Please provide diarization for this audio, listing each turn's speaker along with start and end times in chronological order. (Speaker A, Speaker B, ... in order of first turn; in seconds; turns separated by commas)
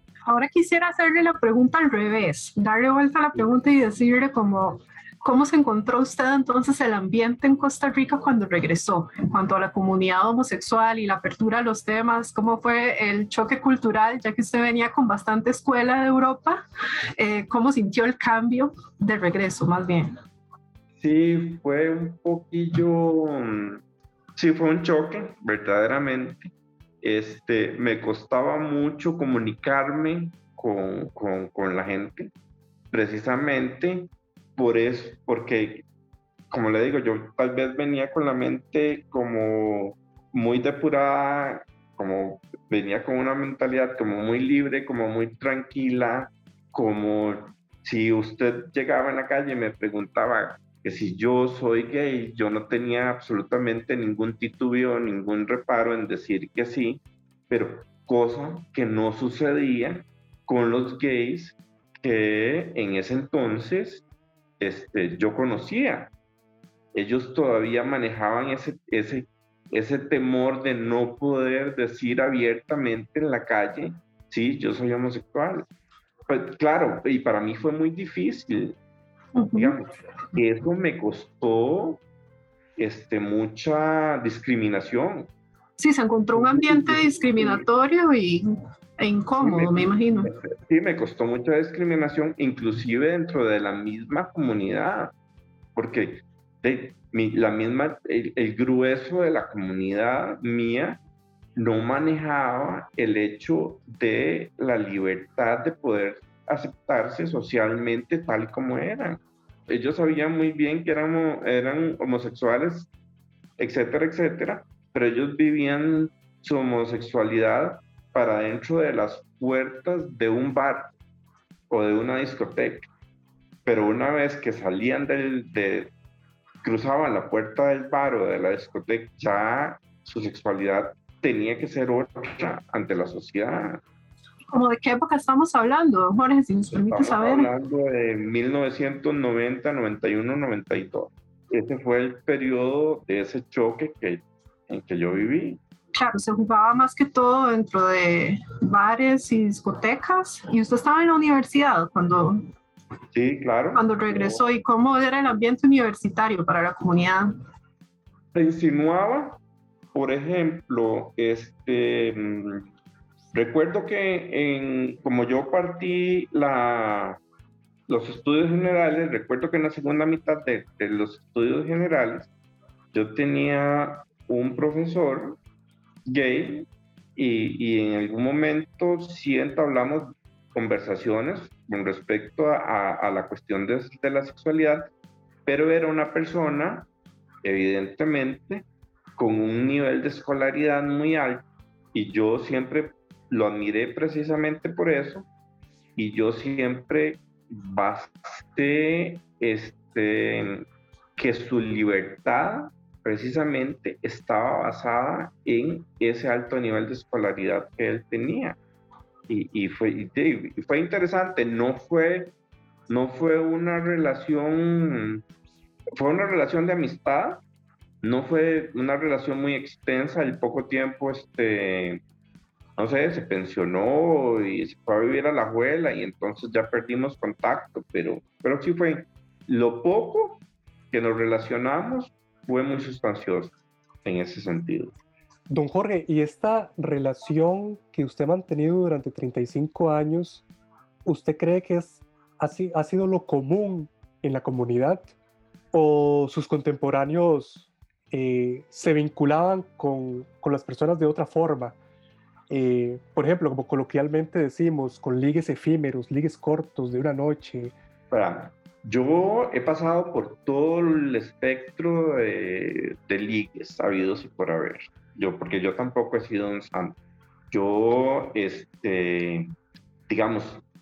Speaker A: 0.3-16.6, Speaker A: 17.2-20.1, Speaker B: 21.0-23.8, Speaker B: 24.4-32.3, Speaker B: 32.9-35.8, Speaker B: 36.5-64.0, Speaker B: 64.6-66.1, Speaker B: 66.9-75.7, Speaker B: 76.3-78.8, Speaker A: 79.3-79.8, Speaker B: 79.5-82.0, Speaker B: 82.8-85.3, Speaker A: 85.8-90.3, Speaker B: 86.3-87.7, Speaker B: 89.4-95.1, Speaker B: 95.8-101.0, Speaker B: 101.6-112.9, Speaker B: 113.6-120.9, Speaker B: 121.7-122.9, Speaker B: 123.7-125.9, Speaker B: 126.6-133.8, Speaker A: 134.5-137.5, Speaker B: 136.9-145.6, Speaker A: 145.9-152.5, Speaker B: 153.1-154.4, Speaker A: 153.7-157.3, Speaker B: 158.3-159.4, Speaker B: 159.9-162.7, Speaker B: 163.3-167.2, Speaker B: 167.9-172.3, Speaker B: 172.9-175.4, Speaker B: 176.1-184.9, Speaker B: 185.4-186.9, Speaker B: 187.4-188.6, Speaker B: 189.2-195.3, Speaker B: 195.9-208.6, Speaker B: 209.3-212.3, Speaker B: 212.9-215.2, Speaker B: 216.0-217.4, Speaker B: 218.0-222.0, Speaker B: 222.8-234.9, Speaker C: 235.5-240.4, Speaker C: 241.0-245.1, Speaker C: 245.7-251.8, Speaker C: 252.5-257.7, Speaker B: 258.1-267.0, Speaker B: 267.5-269.5, Speaker B: 270.1-270.6